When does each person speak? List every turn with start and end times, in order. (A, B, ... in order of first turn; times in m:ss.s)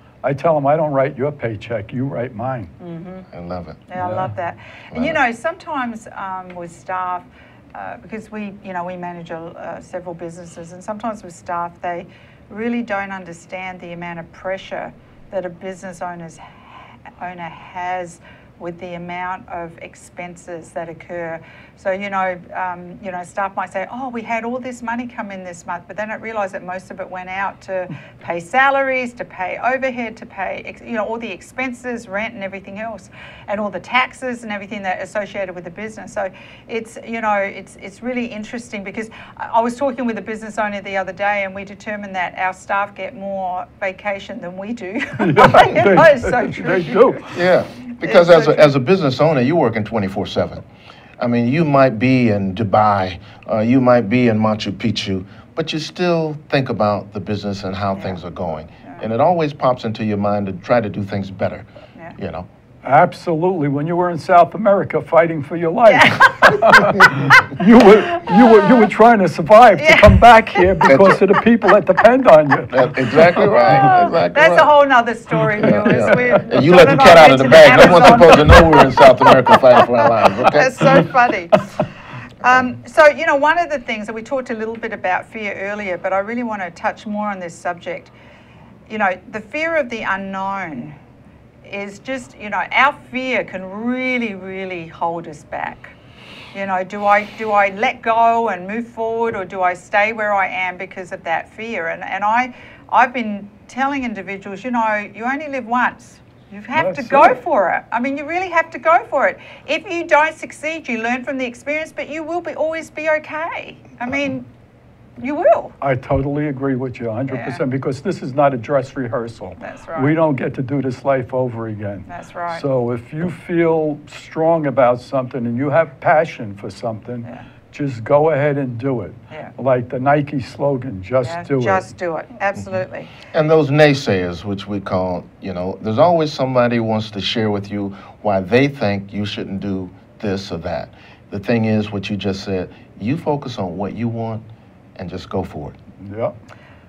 0:00.2-0:02.7 A
0:02.8-0:03.3 B
0:03.3-0:03.8 C
0:03.9-0:47.3 B
0:04.0-0:04.3 A
0:04.9-0:05.2 C
0:45.2-0:47.3 A
0:47.3-0:50.6 C
0:48.0-0:48.7 B
0:51.2-1:02.5 C
0:57.9-0:58.2 B
1:02.8-1:13.4 A
1:05.8-1:07.5 B
1:08.2-1:08.7 B
1:09.8-1:10.6 B
1:10.8-1:11.2 C
1:12.7-1:14.7 C
1:13.6-1:19.3 B
1:15.6-1:21.1 C
1:15.9-1:16.2 A
1:20.4-1:21.8 B
1:22.4-1:28.1 B
1:28.9-1:31.0 B
1:31.6-1:35.9 B
1:36.5-1:54.5 B
1:46.7-1:47.4 A
1:55.2-1:55.7 B
1:55.8-2:11.9 A
1:57.3-1:57.6 B
1:59.6-2:00.2 B
2:02.1-2:02.6 B
2:11.2-2:13.1 B
2:13.3-2:25.8 C
2:26.0-2:26.3 A